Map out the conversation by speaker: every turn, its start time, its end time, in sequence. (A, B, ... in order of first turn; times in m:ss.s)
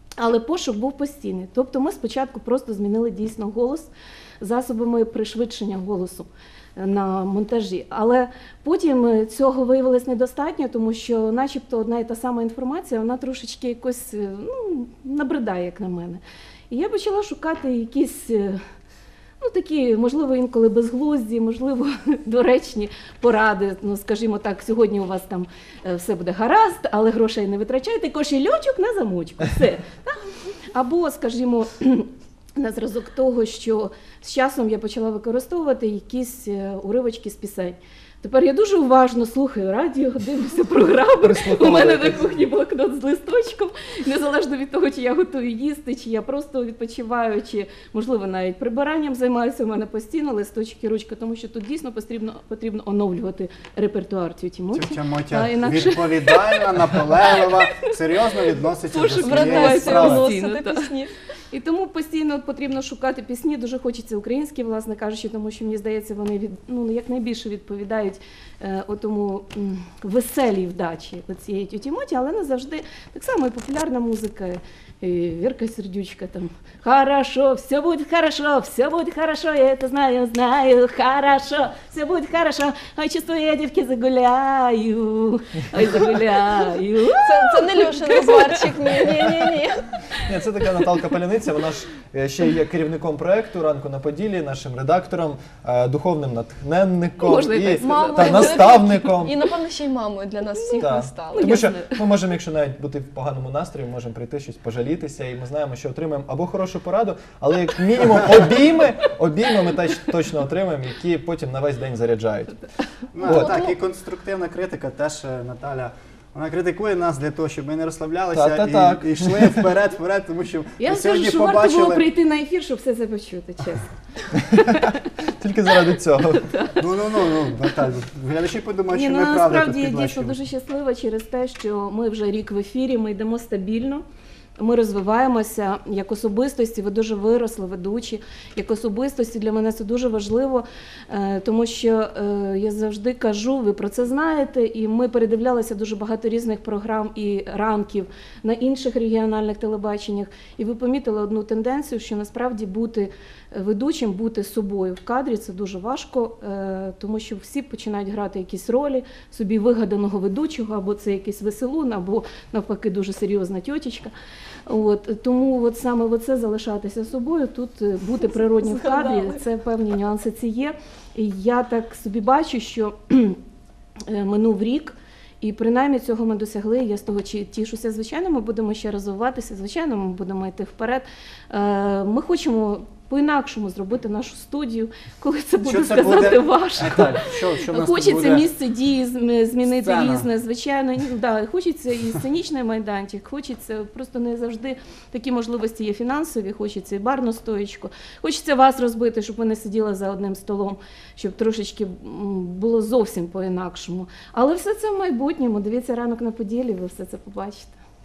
0:00.2-0:18.6 A
0:19.4-0:57.4 A
0:41.2-0:42.4 B
0:54.7-1:00.3 C
0:58.9-1:00.9 A
0:59.1-1:01.1 D
1:01.5-1:28.6 A
1:27.2-1:30.0 D
1:30.2-1:39.4 B
1:37.2-1:38.7 A
1:37.8-1:41.5 D
1:40.6-1:42.1 A
1:40.8-1:52.6 B
1:53.1-2:02.0 C
1:53.2-1:53.7 D
1:53.2-1:53.6 B
1:58.3-1:59.8 B
2:00.8-2:03.9 A
2:04.4-2:06.5 B
2:04.7-2:04.9 A
2:06.4-2:06.8 A
2:06.8-2:10.4 C
2:08.9-2:14.0 A
2:14.6-2:44.1 A
2:44.7-2:53.4 A
2:48.6-2:49.4 D
2:54.1-3:27.8 A
3:05.6-3:08.5 C
3:09.7-3:10.3 C